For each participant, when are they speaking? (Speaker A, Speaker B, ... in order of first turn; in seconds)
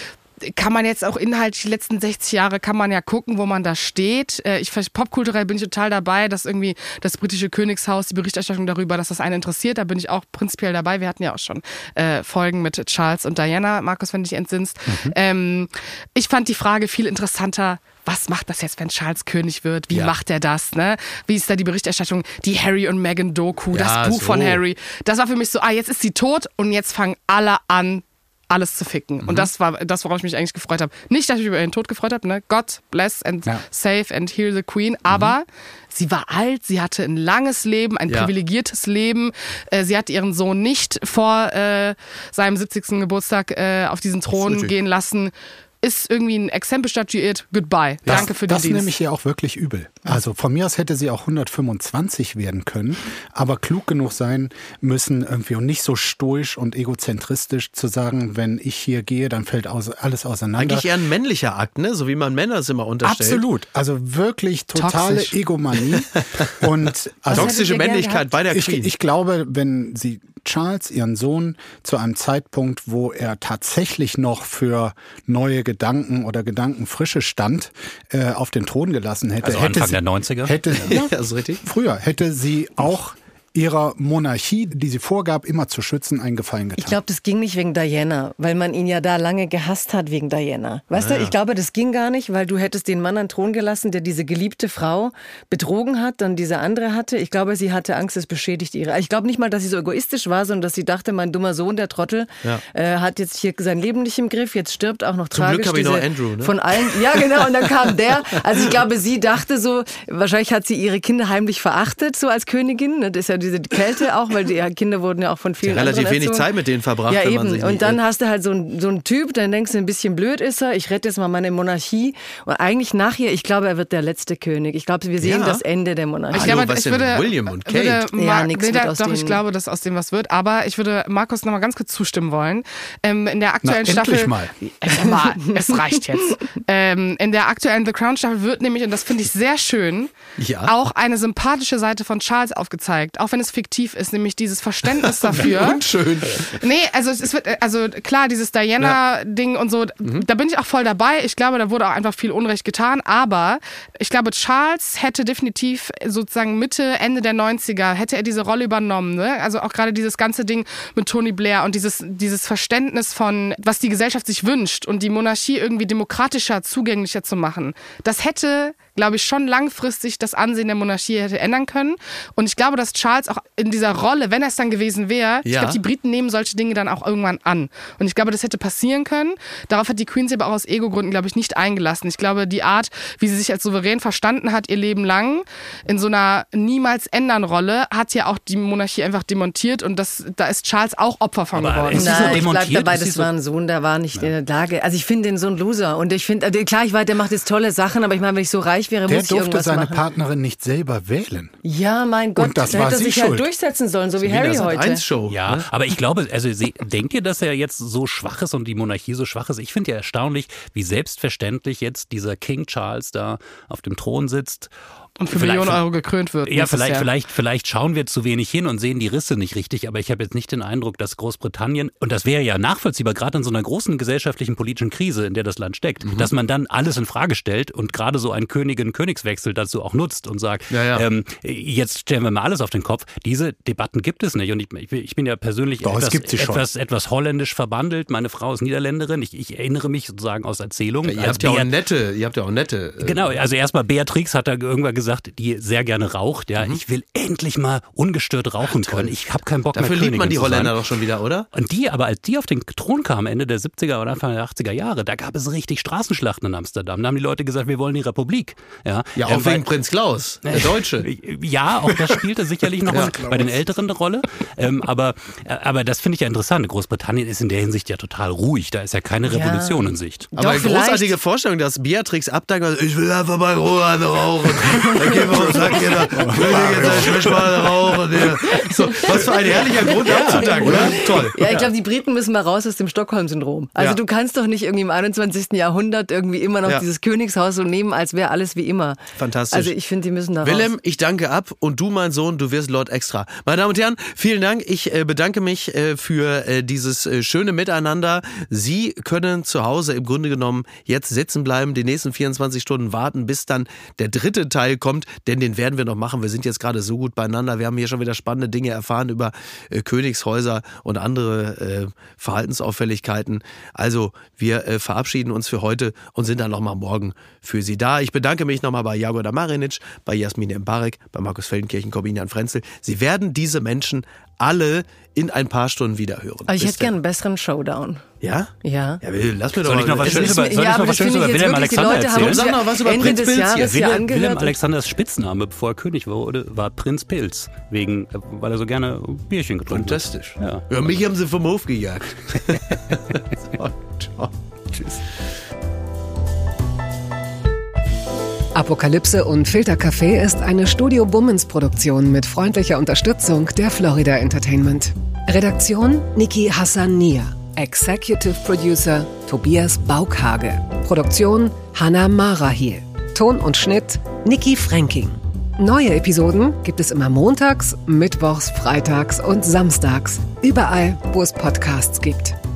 Speaker A: 0.4-48.9, 126.3-140.1, 140.6-145.8, 146.4-192.4, 215.2-217.1
Speaker B: 23.7-24.6, 29.2-29.5, 35.1-35.3, 44.3-44.7, 60.5-63.4, 67.3-68.9, 80.8-81.6, 90.9-91.3, 105.3-107.7, 115.6-118.0, 125.2-125.6, 126.3-128.1, 140.4-140.7, 145.0-146.6, 175.4-175.8, 204.2-205.7, 230.7-231.0, 241.0-243.3, 248.7-249.1, 249.7-251.5, 259.1-261.1, 270.3-281.6, 289.1-289.7, 290.4-326.9, 328.2-330.5, 332.1-333.9, 339.7-345.2
Speaker C: 48.1-60.9, 63.0-67.6, 68.5-87.0, 133.6-134.5, 199.1-201.5, 202.4-203.5, 235.8-236.7, 262.8-263.6, 275.3-278.2
Speaker D: 67.3-68.3, 86.8-116.5, 117.1-126.6, 128.2-129.4, 191.9-200.0, 201.6-205.0, 269.2-271.1, 275.1-275.5, 278.5-289.0, 289.5-290.7, 326.5-328.0, 328.6-329.0, 330.0-334.6
Speaker E: 79.4-80.8, 191.5-193.3, 205.3-214.7, 215.3-215.8, 216.4-241.7, 243.0-250.8, 251.5-259.7, 260.4-270.3, 280.0-281.6, 329.6-332.5, 333.0-340.9
Speaker F: 348.5-372.4